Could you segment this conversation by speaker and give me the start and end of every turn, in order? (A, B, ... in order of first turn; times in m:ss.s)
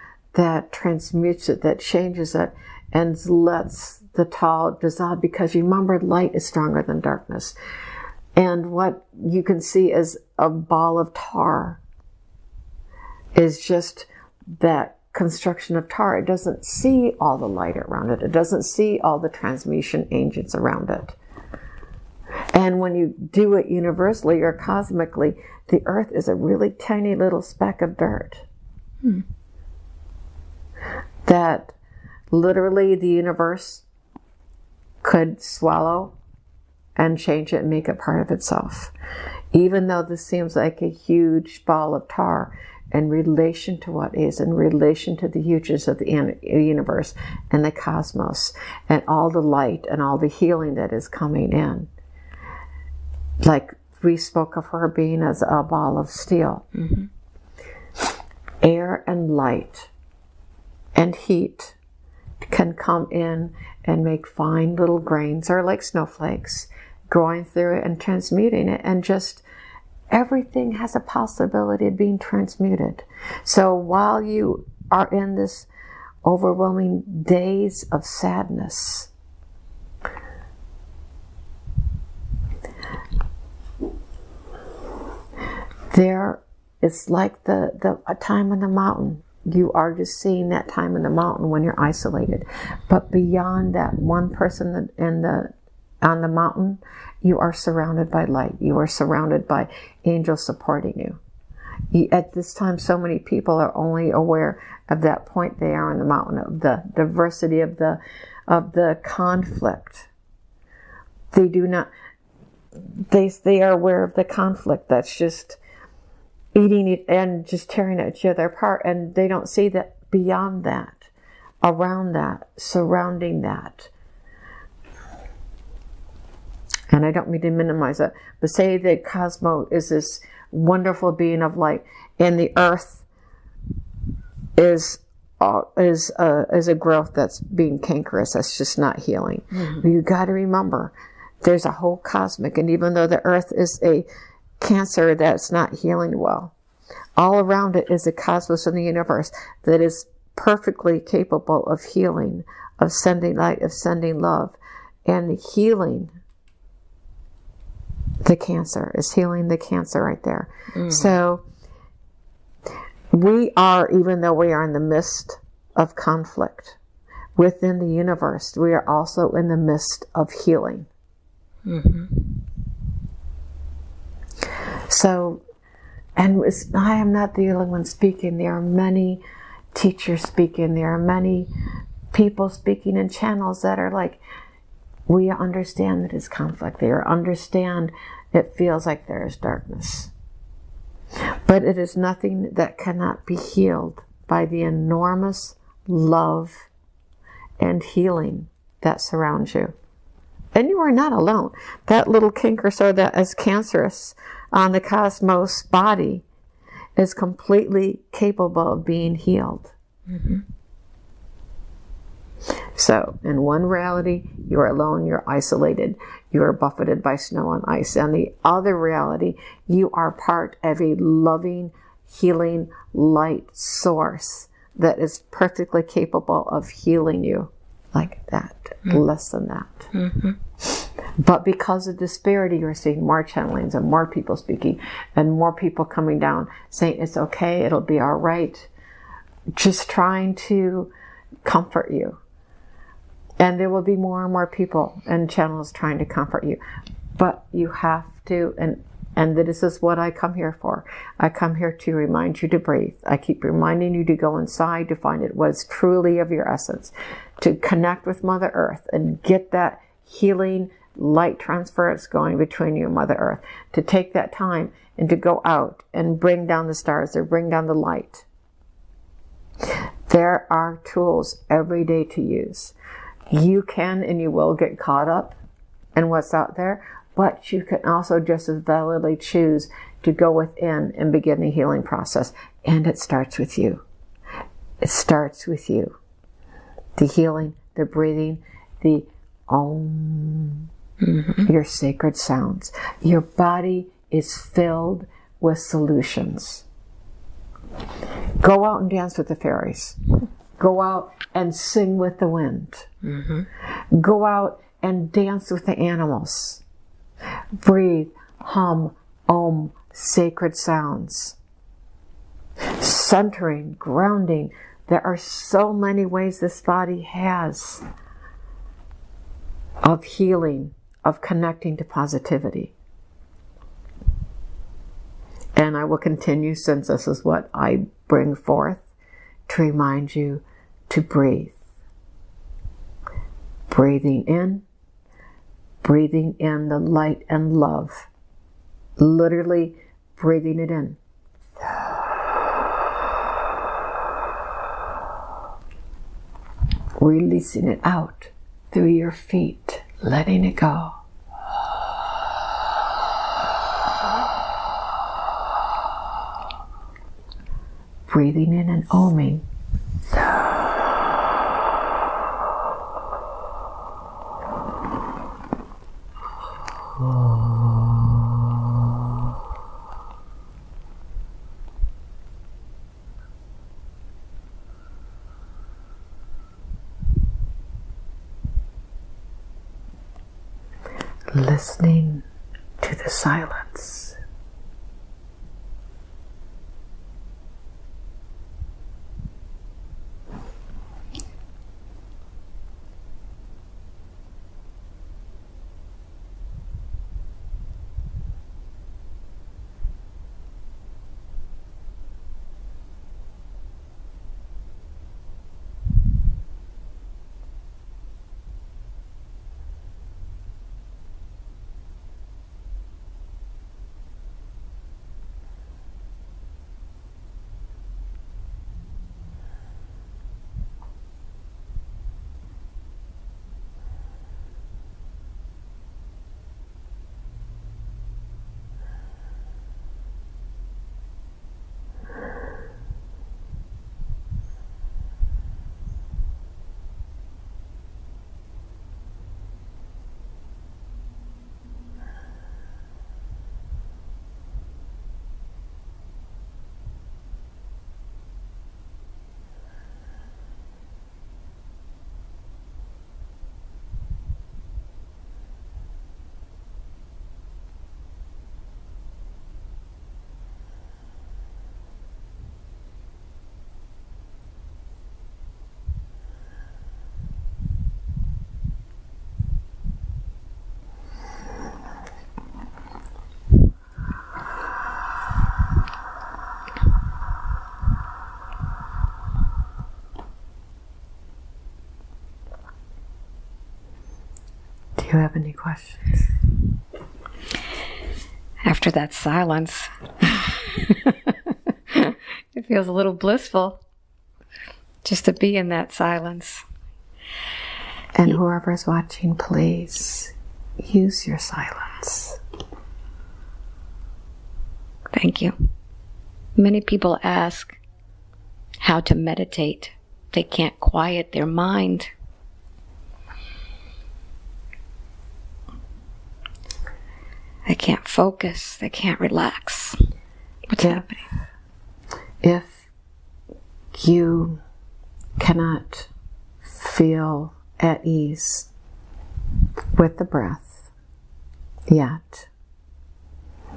0:00.3-0:07.6 A
0:08.4-0:11.8 A
0:13.4-0:21.2 A
0:22.5-0:28.5 A
0:31.2-0:31.8 A
0:32.3-0:33.8 A
0:35.0-0:36.2 A
0:37.0-0:38.9 A
0:39.5-0:51.9 A
0:53.4-0:56.7 A
0:56.7-0:57.1 B
0:58.6-0:59.9 A
1:01.0-1:01.8 A
1:02.4-1:09.4 A
1:10.1-1:15.7 A
1:16.2-1:19.1 A
1:25.9-1:35.5 A
1:36.0-1:41.2 A
1:41.9-1:50.1 A
1:51.3-1:51.9 A
1:53.1-1:55.6 A
1:56.6-2:01.1 A
2:01.6-2:03.9 A
2:06.9-2:13.0 A
2:14.6-2:24.0 A
2:19.5-2:19.8 B
2:24.6-2:26.5 A
2:27.2-2:36.2 A
2:38.2-2:41.4 A
2:40.7-2:41.1 B
2:43.1-2:46.8 A
2:47.4-2:50.9 A
2:51.7-2:52.3 B
2:54.9-2:55.4 A
2:56.2-2:59.2 A
2:59.7-3:01.5 A
3:02.1-3:04.2 A
3:05.1-3:10.1 A
3:11.4-3:16.7 A
3:17.6-3:19.7 A
3:20.6-3:26.2 A
3:27.0-3:29.7 A
3:30.1-3:30.4 B
3:32.8-3:49.9 A
3:49.9-3:50.4 B
3:50.8-3:58.7 A
3:59.5-4:00.9 A
4:01.4-4:02.2 A
4:03.4-4:06.6 A
4:07.2-4:28.3 A
4:29.7-4:32.7 A
4:33.3-4:35.4 A
4:36.0-4:43.8 A
4:44.8-4:46.0 A
4:47.0-4:50.7 A
4:51.0-4:51.5 B
4:51.4-4:56.6 A
4:58.4-5:00.0 A
5:00.6-5:02.9 A
5:03.0-5:03.5 B
5:03.9-5:06.6 A
5:07.6-5:11.4 A
5:12.7-5:17.8 A
5:19.8-5:22.7 A
5:25.6-5:28.9 A
5:29.5-5:31.6 A
5:33.7-5:34.6 A
5:35.8-5:38.1 A
5:39.0-5:41.0 A
5:47.0-5:51.0 A
5:58.1-5:59.4 A
6:07.6-6:08.0 A
6:21.3-6:22.2 A
6:22.8-6:24.2 A
8:05.0-8:06.2 A
8:08.6-8:13.8 B
8:15.0-8:16.6 B
8:18.2-8:22.4 A
8:25.1-8:25.6 B
8:26.6-8:27.8 B
8:28.8-8:32.1 B
8:37.7-8:40.0 B
8:40.7-8:41.3 B
8:40.8-8:41.0 A
8:42.4-8:42.9 A
8:43.9-8:44.6 A
8:45.4-8:46.1 A
8:46.6-8:48.7 A
8:50.0-8:50.9 A
8:51.9-8:52.5 A